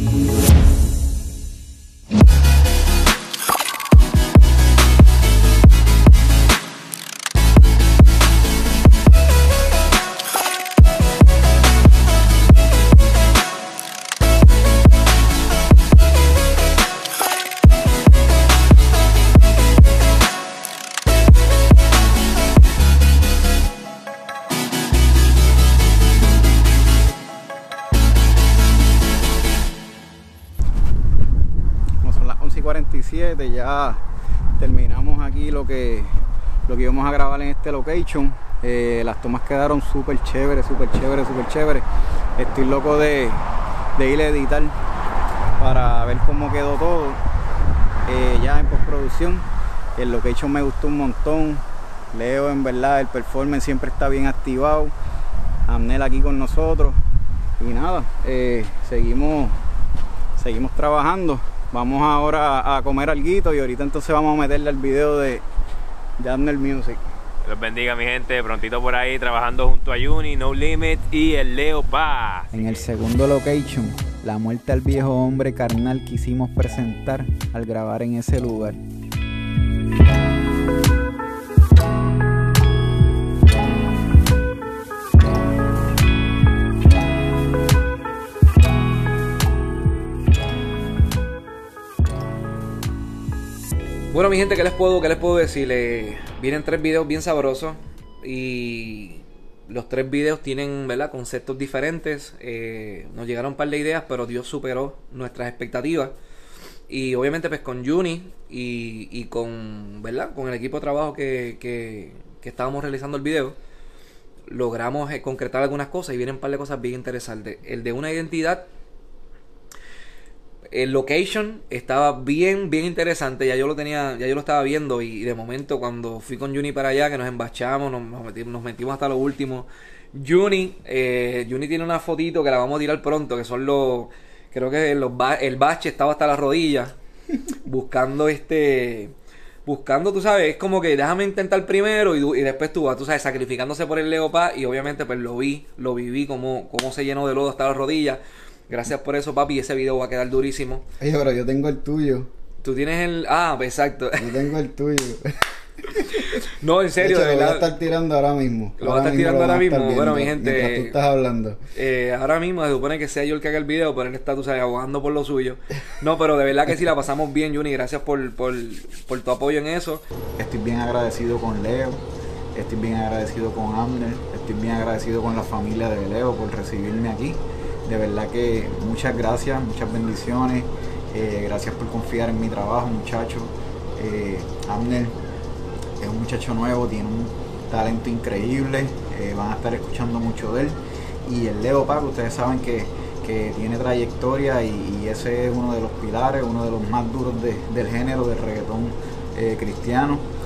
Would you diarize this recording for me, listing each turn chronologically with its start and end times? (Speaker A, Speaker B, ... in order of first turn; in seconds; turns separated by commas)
Speaker A: 32.0-34.0, Speaker A: 34.6-41.9, Speaker A: 42.4-44.8, Speaker A: 45.6-47.2, Speaker A: 48.1-49.5, Speaker A: 50.0-54.9, Speaker A: 55.7-57.0, Speaker A: 57.6-59.6, Speaker A: 60.4-65.4, Speaker A: 66.2-67.0, Speaker B: 67.5-72.9, Speaker A: 72.5-78.8, Speaker C: 94.1-106.2, Speaker C: 106.9-113.6, Speaker C: 114.5-118.7, Speaker C: 120.7-137.0, Speaker C: 137.6-150.9, Speaker A: 151.0-152.3, Speaker C: 152.6-154.5, Speaker A: 154.2-156.0, Speaker C: 156.0-157.8, Speaker A: 157.0-161.6, Speaker C: 158.8-161.0, Speaker C: 161.7-170.0, Speaker A: 170.4-172.0, Speaker A: 172.5-185.2, Speaker A: 186.0-200.3